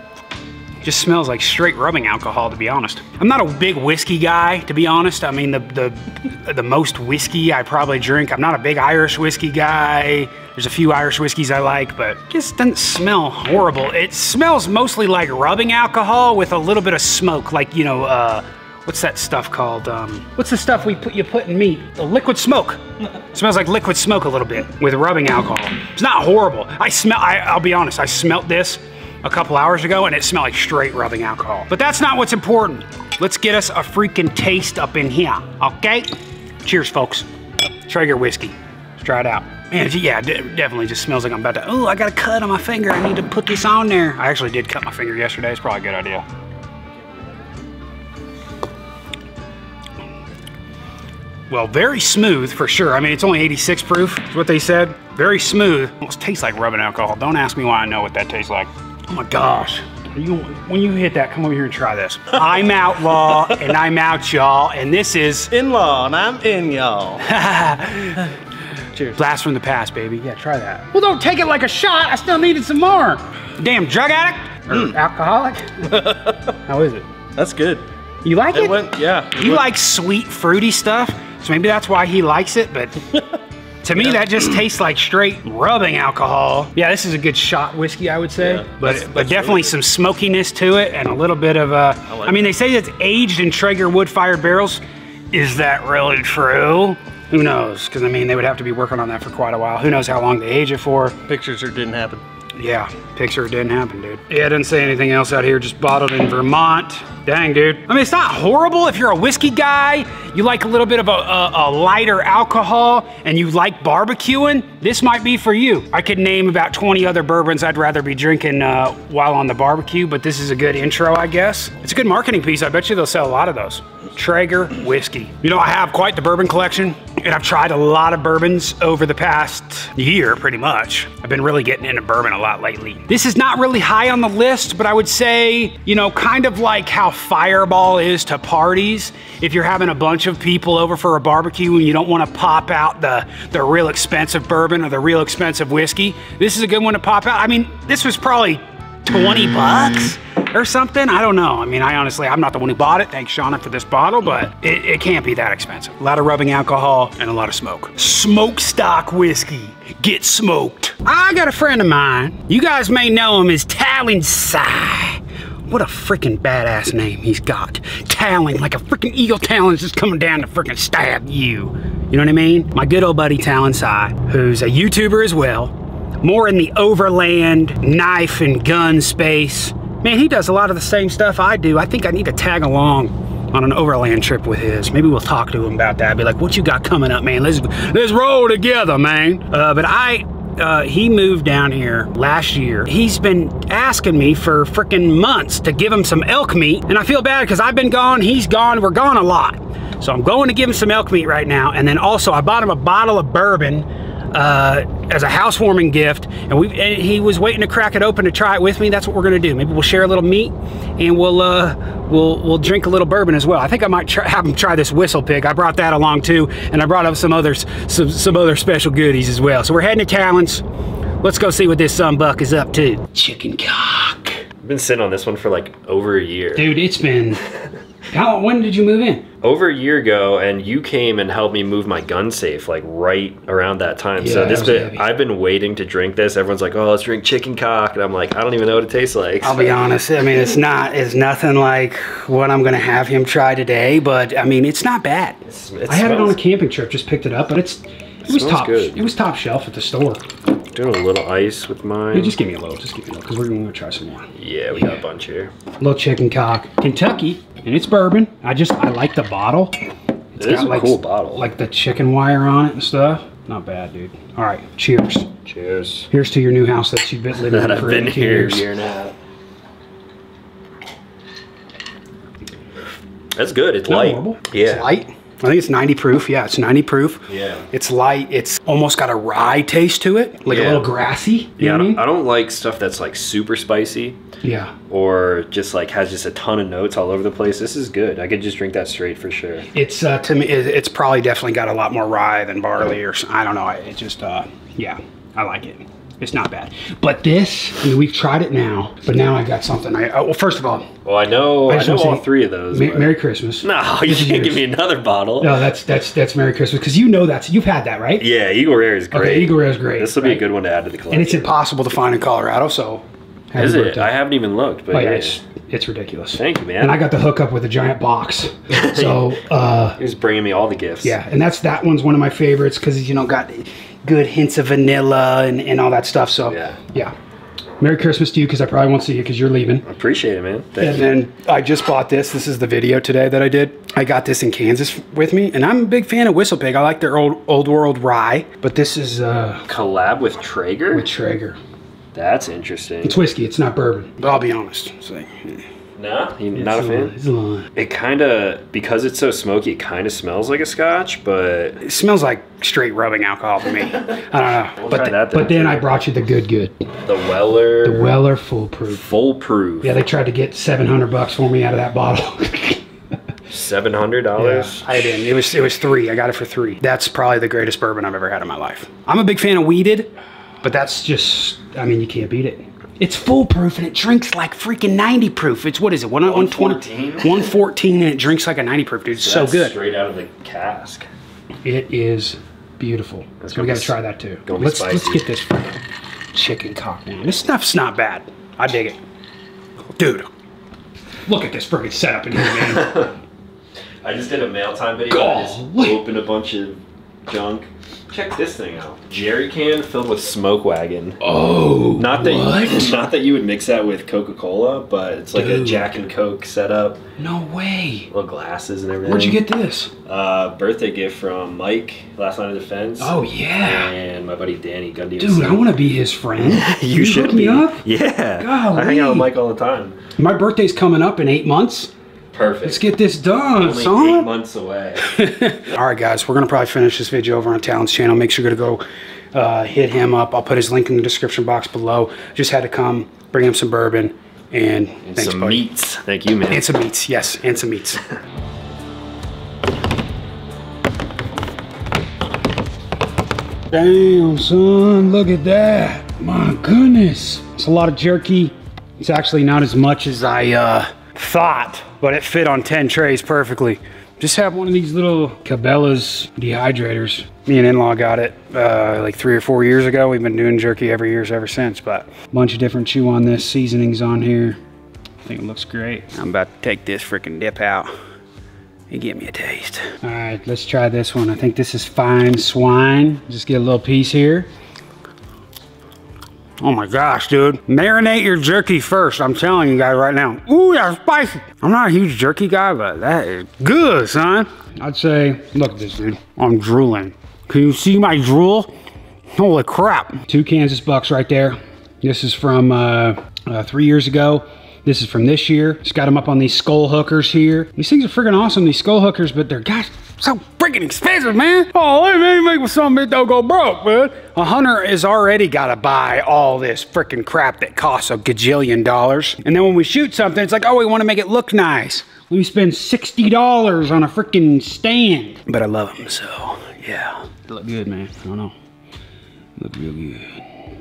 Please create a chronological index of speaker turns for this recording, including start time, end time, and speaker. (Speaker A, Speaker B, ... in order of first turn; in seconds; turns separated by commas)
Speaker A: 0.8-22.8, Speaker A: 23.3-37.3, Speaker A: 37.9-46.2, Speaker A: 51.5-65.5, Speaker B: 65.5-67.2, Speaker A: 67.2-68.3, Speaker A: 69.1-76.0, Speaker B: 76.0-76.3, Speaker A: 76.7-77.1, Speaker B: 77.4-77.8, Speaker A: 78.2-83.0, Speaker B: 78.6-79.5, Speaker A: 83.8-101.2, Speaker B: 101.3-102.2, Speaker A: 102.6-220.6, Speaker A: 221.2-224.4, Speaker C: 224.6-226.7, Speaker A: 226.6-227.4, Speaker A: 228.1-229.2, Speaker C: 229.4-239.9, Speaker A: 234.2-235.1, Speaker A: 239.4-250.2, Speaker C: 245.5-246.4, Speaker C: 248.2-249.0, Speaker C: 250.7-252.4, Speaker A: 252.1-255.0, Speaker C: 254.4-255.5, Speaker A: 255.8-259.8, Speaker C: 260.4-261.5, Speaker A: 260.4-265.3, Speaker C: 265.5-266.1, Speaker A: 266.1-268.7, Speaker C: 267.4-269.1, Speaker C: 273.3-274.9, Speaker A: 273.9-282.0, Speaker C: 277.3-277.6, Speaker C: 280.5-280.9, Speaker C: 281.6-284.2, Speaker A: 284.4-284.7, Speaker C: 284.9-289.7, Speaker A: 289.7-300.9, Speaker C: 301.1-305.7, Speaker A: 301.7-304.6, Speaker A: 305.4-308.2, Speaker C: 308.2-311.5, Speaker A: 309.1-310.4, Speaker A: 311.1-314.1, Speaker C: 313.6-315.4, Speaker A: 314.9-320.0, Speaker C: 316.4-317.0, Speaker C: 318.7-319.4, Speaker C: 320.0-321.2, Speaker A: 321.0-327.1, Speaker C: 326.5-326.8, Speaker A: 327.8-329.9, Speaker C: 329.9-331.1, Speaker A: 330.8-339.7, Speaker C: 339.7-341.1, Speaker A: 340.9-341.6, Speaker C: 342.1-343.2, Speaker A: 343.0-345.6, Speaker C: 346.0-347.1, Speaker A: 346.5-347.7, Speaker C: 347.8-351.8, Speaker A: 351.8-356.9, Speaker C: 354.8-355.9, Speaker C: 357.1-358.2, Speaker A: 357.8-359.0, Speaker C: 358.9-360.0, Speaker A: 359.8-362.8, Speaker C: 363.5-365.1, Speaker A: 364.4-370.1, Speaker A: 370.6-379.8, Speaker C: 376.2-377.5, Speaker C: 379.2-381.1, Speaker A: 381.6-385.8, Speaker C: 383.4-383.9, Speaker C: 384.5-385.2, Speaker A: 386.3-389.0, Speaker A: 390.0-390.3, Speaker A: 391.3-393.1, Speaker C: 392.5-393.1, Speaker C: 394.0-401.2, Speaker A: 395.1-396.0, Speaker A: 401.2-402.9, Speaker C: 402.0-407.0, Speaker A: 405.3-406.1, Speaker A: 407.2-408.1, Speaker C: 408.1-409.4, Speaker A: 409.1-409.9, Speaker C: 410.1-415.6, Speaker A: 413.0-413.9, Speaker A: 415.2-417.8, Speaker C: 416.4-420.0, Speaker A: 418.4-419.3, Speaker A: 420.2-421.9, Speaker C: 422.3-422.9, Speaker A: 422.6-424.3, Speaker C: 423.6-425.1, Speaker A: 425.1-428.8, Speaker A: 429.3-435.6, Speaker C: 435.1-436.7, Speaker A: 436.5-438.0, Speaker A: 443.7-464.6, Speaker A: 465.2-467.9, Speaker A: 468.9-474.5, Speaker A: 476.6-488.7, Speaker A: 489.4-518.5, Speaker A: 519.6-520.5